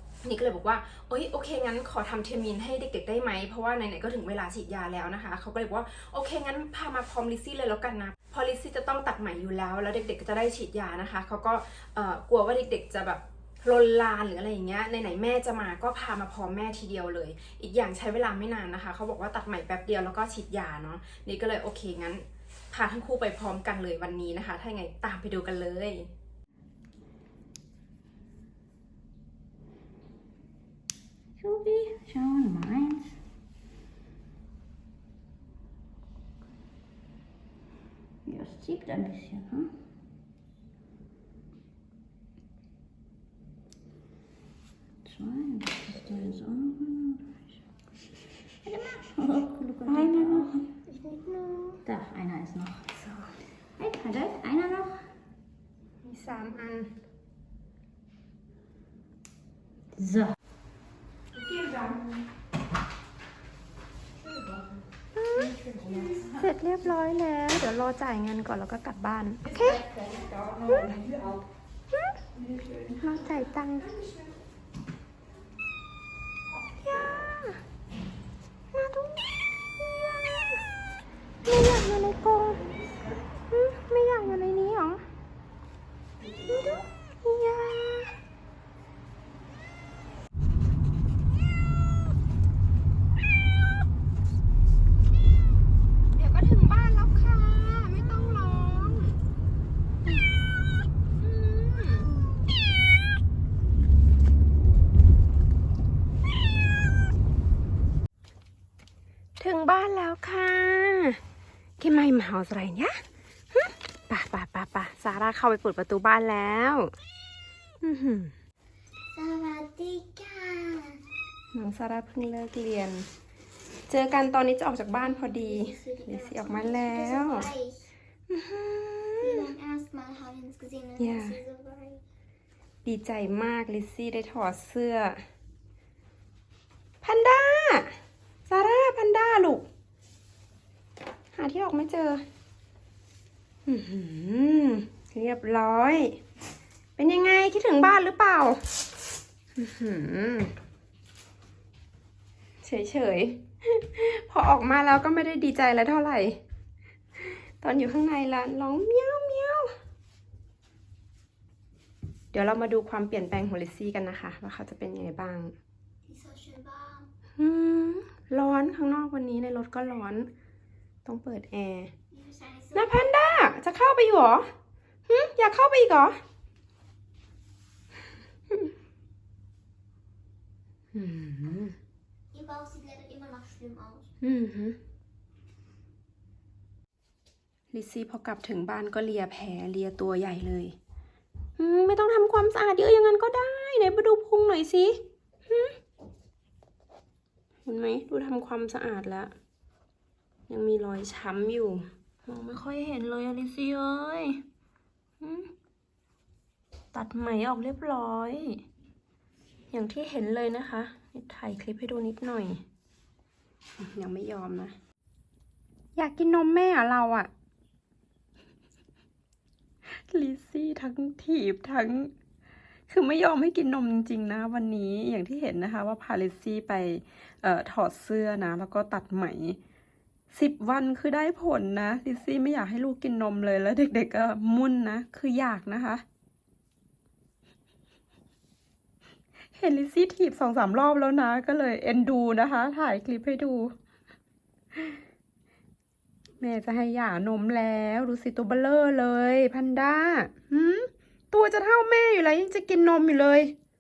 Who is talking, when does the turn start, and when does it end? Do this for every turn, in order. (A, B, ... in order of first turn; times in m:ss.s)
0:00.2-0:26.1 A
0:31.4-0:33.1 B
0:38.2-0:39.7 B
0:45.0-0:47.6 B
0:48.6-0:50.7 B
0:49.9-0:50.5 A
0:51.0-0:51.8 C
0:51.8-0:52.9 B
0:52.9-0:53.3 A
0:53.8-0:55.1 B
0:56.0-0:56.9 A
1:00.0-1:00.3 B
1:01.3-1:02.1 A
1:05.1-1:09.8 A
1:10.6-1:11.0 A
1:12.9-1:14.0 A
1:16.5-1:17.6 A
1:18.7-1:20.6 A
1:21.4-1:22.7 A
1:23.5-1:25.0 A
1:26.4-1:28.2 A
1:36.1-1:39.2 A
1:41.2-1:42.2 A
1:49.4-1:51.2 A
1:51.8-1:56.9 A
1:57.8-1:58.3 A
1:59.1-2:01.0 C
2:01.5-2:03.1 A
2:03.9-2:07.5 A
2:05.1-2:07.8 C
2:08.3-2:09.5 A
2:09.2-2:12.0 C
2:11.0-2:11.4 A
2:12.8-2:15.2 A
2:17.0-2:19.6 A
2:21.3-2:22.2 A
2:23.6-2:26.2 A
2:27.0-2:28.6 A
2:29.6-2:30.5 A
2:32.6-2:36.4 A
2:37.2-2:39.7 A
2:42.3-2:45.5 A
2:46.1-2:47.1 C
2:47.4-2:50.3 A
2:51.0-2:51.9 A
2:52.1-2:53.1 C
2:52.7-2:54.5 A
2:55.1-2:56.2 A
3:00.9-3:01.8 A
3:02.3-3:04.1 C
3:04.2-3:04.8 A
3:07.7-3:10.8 A
3:11.6-3:15.8 A
3:17.6-3:19.3 A
3:20.5-3:24.4 A
3:25.2-3:25.5 A
3:26.9-3:28.6 A
3:29.7-3:32.6 A
3:33.8-3:34.8 A
3:36.0-3:37.3 A
3:39.9-3:42.1 A
3:42.9-3:49.6 A
3:50.3-3:56.0 A
3:59.5-4:03.7 A
4:06.4-4:13.5 A